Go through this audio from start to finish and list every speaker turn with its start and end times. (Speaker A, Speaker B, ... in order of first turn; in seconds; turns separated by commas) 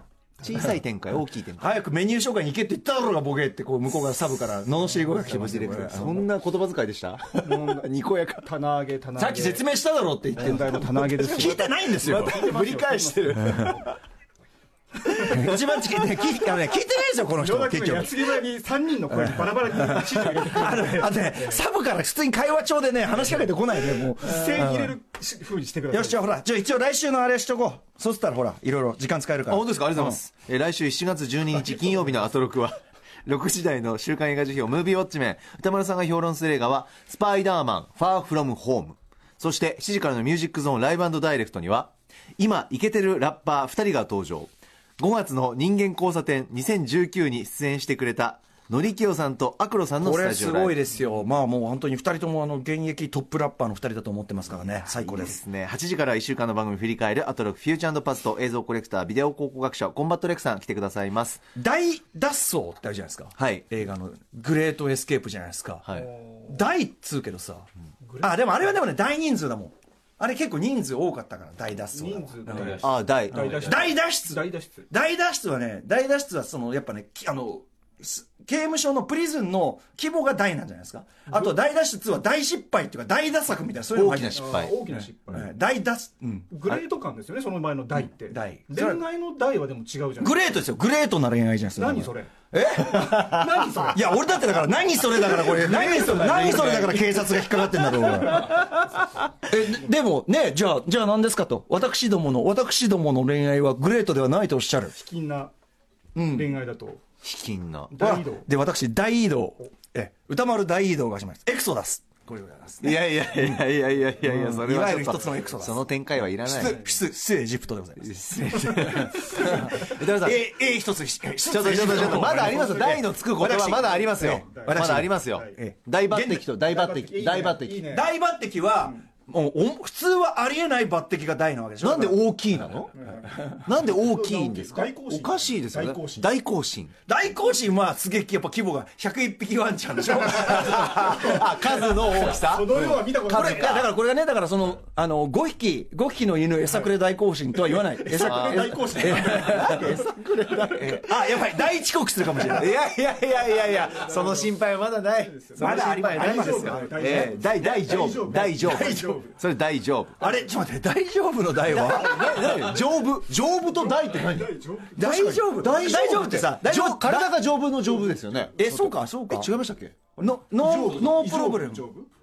Speaker A: 0.4-1.6, Speaker B: 1.6-6.3, Speaker A: 5.2-7.5, Speaker C: 7.4-9.6, Speaker A: 8.1-8.4, Speaker B: 9.2-12.3, Speaker C: 10.4-13.8, Speaker A: 12.1-13.9, Speaker B: 15.1-18.4, Speaker C: 17.4-21.6, Speaker B: 19.1-24.9, Speaker C: 24.1-26.2, Speaker B: 25.9-30.2, Speaker A: 29.5-50.8, Speaker B: 50.0-55.4, Speaker A: 54.8-61.4, Speaker B: 61.5-67.7, Speaker A: 63.4-63.6, Speaker A: 65.8-66.1, Speaker C: 66.0-66.3, Speaker C: 68.0-68.7, Speaker B: 68.2-72.8, Speaker C: 71.9-74.9, Speaker A: 72.8-73.9, Speaker B: 73.5-84.6, Speaker A: 84.0-84.8, Speaker C: 84.0-85.5, Speaker B: 85.3-86.7, Speaker C: 86.5-90.5, Speaker B: 88.0-89.0, Speaker B: 90.2-105.0, Speaker C: 91.8-92.3, Speaker C: 93.0-94.0, Speaker C: 95.2-98.7, Speaker C: 104.9-105.5, Speaker B: 106.2-106.5, Speaker C: 106.2-107.0, Speaker A: 107.2-107.9, Speaker C: 107.9-108.5, Speaker B: 108.0-113.6, Speaker A: 112.8-116.8, Speaker B: 114.2-115.8, Speaker C: 115.2-115.5, Speaker B: 116.4-118.2, Speaker C: 116.6-117.0, Speaker A: 118.0-120.5, Speaker B: 118.7-126.5, Speaker A: 121.4-127.9, Speaker C: 123.8-125.6, Speaker C: 126.6-128.1, Speaker B: 127.9-132.2, Speaker A: 131.8-132.9, Speaker C: 132.9-136.3, Speaker A: 133.5-136.9, Speaker B: 137.1-141.9, Speaker A: 140.3-143.1, Speaker C: 141.2-141.6, Speaker C: 142.2-143.9, Speaker B: 143.2-150.0, Speaker C: 147.9-150.1, Speaker A: 148.2-151.5, Speaker B: 150.6-152.7, Speaker A: 152.4-160.2, Speaker C: 153.3-154.6, Speaker C: 155.2-159.4, Speaker B: 155.6-157.3, Speaker B: 158.6-159.1, Speaker B: 160.2-162.7, Speaker A: 161.7-164.5, Speaker C: 163.7-165.2, Speaker B: 164.9-167.4, Speaker A: 165.1-170.1, Speaker B: 168.5-169.5, Speaker B: 170.2-171.9, Speaker C: 170.6-172.1